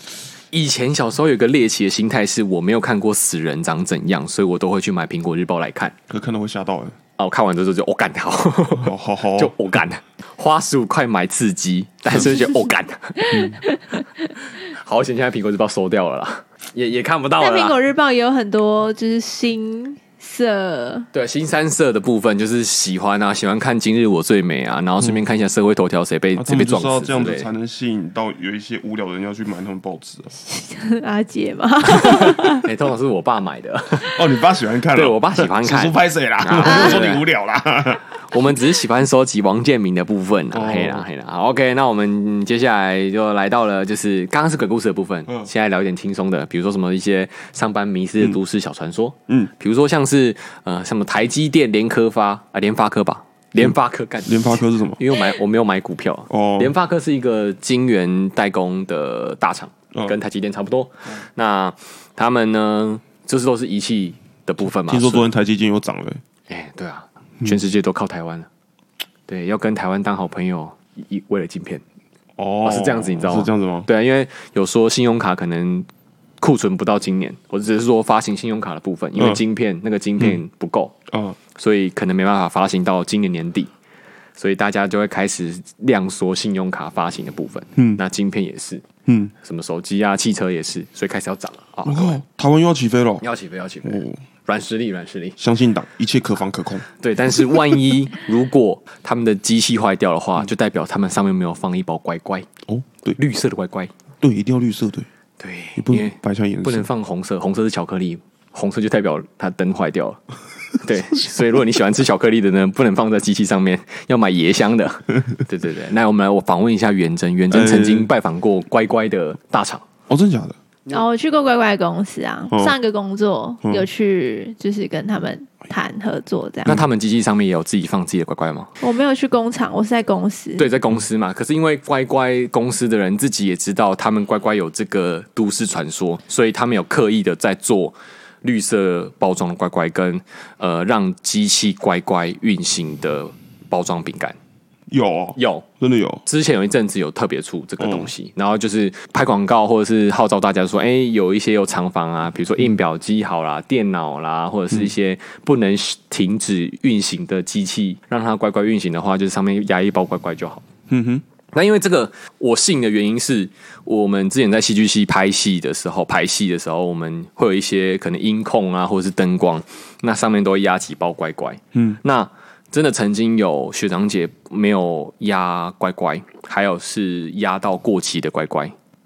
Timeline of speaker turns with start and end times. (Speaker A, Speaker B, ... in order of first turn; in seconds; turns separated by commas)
Speaker A: 0.5-6.0, Speaker B: 6.1-7.0, Speaker A: 7.2-13.5, Speaker B: 8.8-9.6, Speaker B: 13.3-13.6, Speaker A: 14.5-17.8, Speaker C: 17.4-21.1, Speaker A: 21.1-27.5, Speaker B: 26.3-30.3, Speaker C: 30.4-32.6, Speaker A: 32.2-34.2, Speaker B: 34.0-38.0, Speaker A: 34.9-37.2, Speaker A: 38.3-65.3, Speaker B: 40.5-41.0, Speaker B: 53.6-55.0, Speaker B: 56.3-56.7, Speaker B: 64.6-66.2, Speaker A: 66.5-68.5, Speaker A: 69.3-71.8, Speaker B: 72.4-73.9, Speaker A: 72.6-75.9, Speaker A: 76.4-81.0, Speaker B: 79.1-79.4, Speaker B: 81.1-81.4, Speaker A: 81.5-83.7, Speaker A: 84.4-88.8, Speaker B: 87.8-88.0, Speaker B: 89.0-89.3, Speaker A: 89.4-92.2, Speaker B: 91.8-93.2, Speaker A: 93.2-95.4, Speaker B: 93.8-94.2, Speaker B: 95.4-96.9, Speaker A: 97.0-102.5, Speaker B: 102.7-103.2, Speaker A: 103.1-103.9, Speaker B: 104.2-105.1, Speaker A: 105.4-110.2, Speaker B: 105.8-106.9, Speaker A: 110.8-119.8, Speaker B: 117.5-118.1, Speaker B: 120.1-120.5, Speaker C: 120.9-126.8, Speaker A: 126.7-128.7, Speaker C: 128.8-130.7, Speaker A: 130.6-144.4, Speaker B: 144.9-146.2, Speaker A: 145.4-145.7, Speaker A: 146.2-160.7, Speaker B: 147.8-148.1, Speaker B: 160.9-161.2, Speaker A: 161.5-178.7, Speaker B: 171.7-172.0